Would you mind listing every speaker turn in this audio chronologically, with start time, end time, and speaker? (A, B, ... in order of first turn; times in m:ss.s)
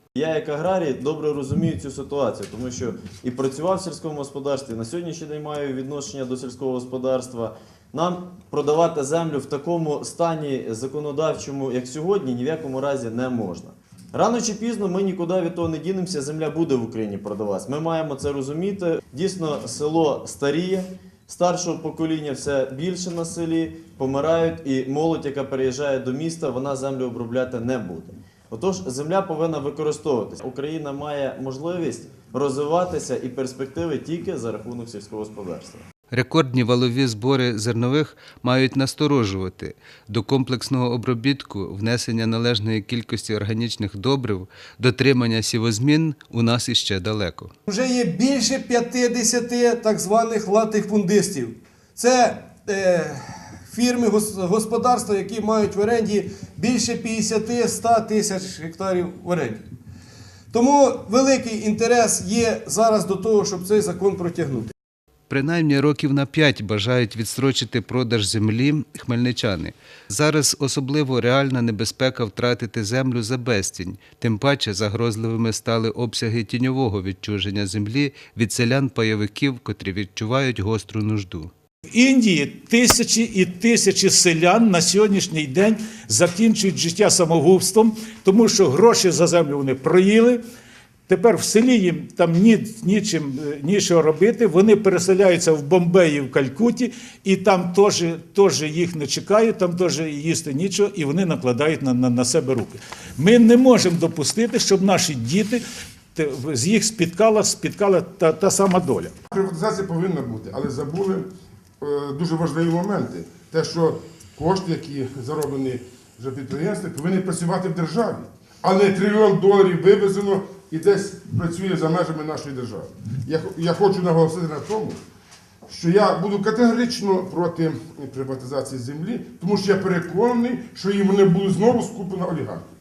0:00.1-0:35.8 A
0:36.1-0:47.5 B
0:47.7-0:59.6 C
1:00.5-1:04.7 C
1:05.3-1:21.5 B
1:21.9-1:30.4 D
1:31.1-1:45.6 D
1:46.1-1:49.1 D
1:49.3-1:51.3 E
1:51.8-2:05.0 E
2:05.7-2:12.6 E